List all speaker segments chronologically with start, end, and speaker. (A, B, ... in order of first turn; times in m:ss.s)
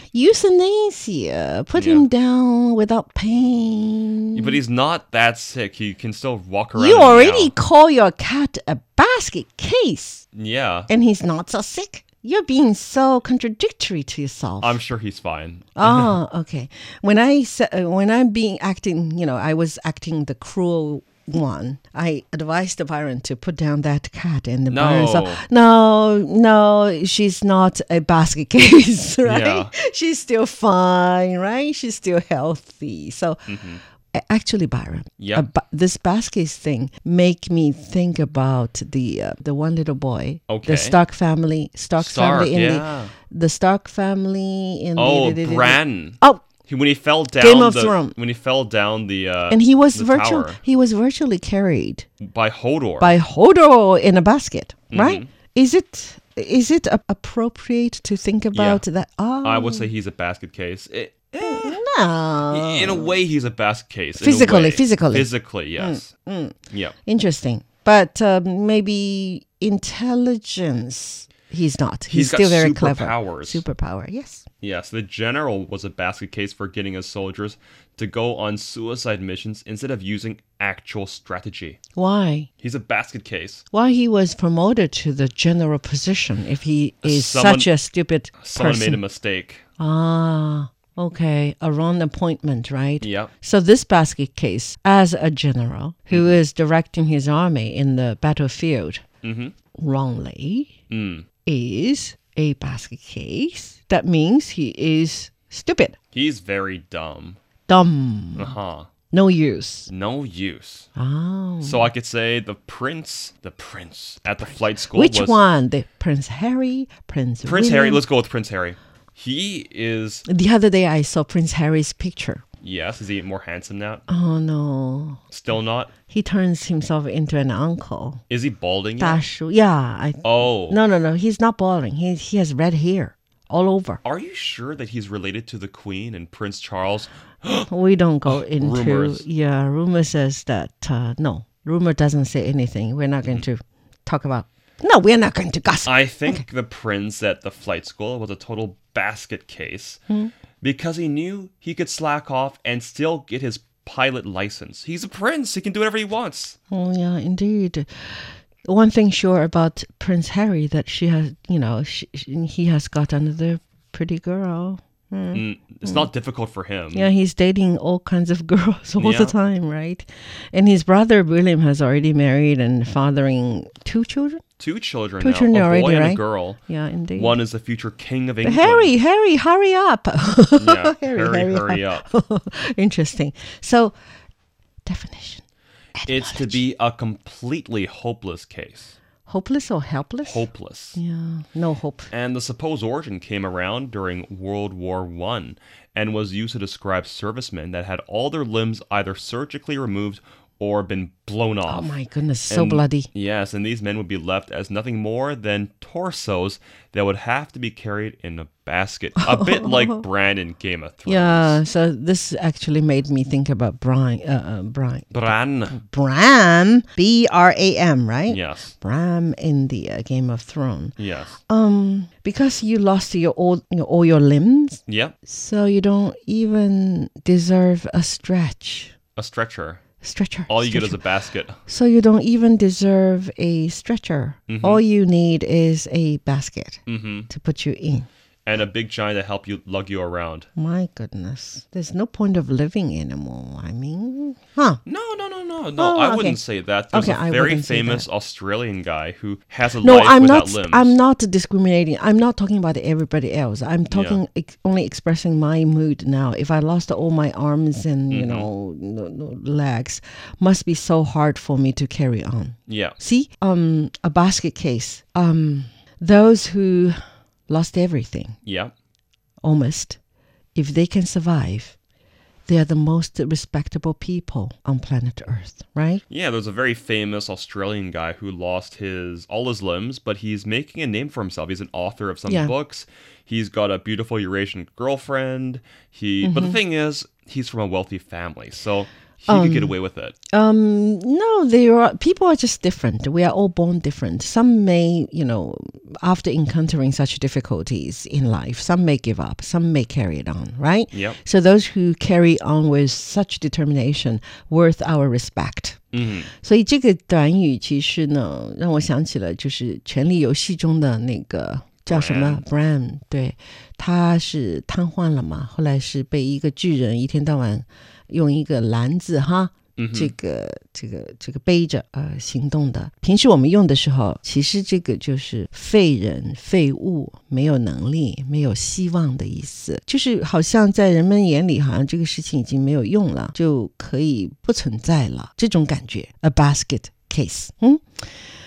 0:00.1-0:04.6 A
0:01.7-0:02.1 B
0:04.3-0:07.5 B
0:06.7-0:10.2 A
0:10.3-0:10.9 B
0:10.9-0:14.8 A
0:14.6-0:16.2 B
0:15.8-0:33.5 A
0:24.7-0:25.4 B
0:29.2-0:29.7 B
0:33.5-0:33.8 B
0:34.1-0:46.4 A
0:35.2-0:35.5 B
0:40.5-0:41.0 B
0:42.0-0:43.1 B
0:45.0-0:50.6 B
0:47.4-0:48.2 A
0:49.5-0:52.1 A
0:52.2-0:53.2 B
0:53.0-0:59.9 A
0:54.9-0:55.3 B
0:58.5-0:58.8 B
0:59.4-1:01.8 B
1:01.4-1:03.2 A
1:02.5-1:06.1 B
1:04.2-1:14.4 A
1:06.7-1:06.9 B
1:12.1-1:13.6 B
1:14.6-1:21.8 B
1:21.9-1:22.5 A
1:22.6-1:23.6 B
1:23.7-1:29.0 A
1:27.0-1:27.7 B
1:28.4-1:29.6 B
1:29.8-1:39.0 A
1:33.0-1:33.3 B
1:36.1-1:36.4 B
1:39.2-1:39.5 B
1:39.8-1:40.7 A
1:40.9-1:41.3 B
1:41.4-1:46.0 A
1:46.1-1:47.4 B
1:47.7-1:48.6 A
1:48.4-1:48.9 B
1:49.1-1:49.9 A
1:49.9-1:50.9 B
1:51.0-1:51.9 A
1:51.6-1:55.4 B
1:54.8-1:58.0 A
1:57.4-2:00.2 B
2:00.2-2:02.4 A
2:02.6-2:04.0 B
2:04.1-2:05.2 A
2:05.3-2:05.9 B
2:06.1-2:08.2 A
2:08.3-2:09.2 B
2:09.0-2:14.0 A
2:10.2-2:10.8 B
2:14.0-2:17.7 B
2:17.7-2:26.4 A
2:18.3-2:19.2 B
2:25.8-2:30.0 B
2:30.6-2:36.6 B
2:36.7-2:46.1 A
2:45.3-2:47.1 B
2:46.9-2:54.4 A
2:49.0-2:49.4 B
2:54.6-2:56.6 B
2:55.2-2:57.4 A
2:57.2-2:58.9 B
2:58.4-3:04.0 A
3:00.6-3:02.1 B
3:04.8-3:05.4 A
3:06.0-3:06.6 A
3:06.1-3:09.0 B
3:09.3-3:12.1 A
3:10.2-3:11.0 B
3:12.1-3:21.9 B
3:21.7-3:23.1 A
3:22.5-3:31.6 B
3:29.2-3:30.0 A
3:31.0-3:48.9 A
3:35.1-3:35.8 B
3:38.3-3:38.7 B
3:41.0-3:41.4 B
3:44.9-3:45.2 B
3:49.2-3:49.8 B
3:50.0-3:51.0 A
3:50.5-3:51.6 B
3:51.7-3:58.1 A
3:54.5-3:54.8 B
3:56.9-3:57.3 B
3:58.5-4:00.5 B
4:00.6-4:04.8 A
4:04.8-4:11.0 B
4:05.8-4:06.4 A
4:06.9-4:08.1 A
4:09.8-4:27.0 A
4:13.9-4:14.2 B
4:18.1-4:18.5 B
4:22.7-4:23.0 B
4:27.5-4:28.4 A
4:28.4-4:28.7 B
4:29.4-4:30.0 A
4:30.5-4:31.8 A
4:32.5-4:36.0 A
4:36.1-4:50.2 B
4:42.3-4:42.5 A
4:46.2-4:46.6 A
4:49.3-4:49.8 A
4:50.3-5:05.8 A
5:00.9-5:01.2 B
5:05.9-5:06.3 B
5:06.4-5:37.8 A
5:11.9-5:12.4 B
5:19.8-5:20.1 B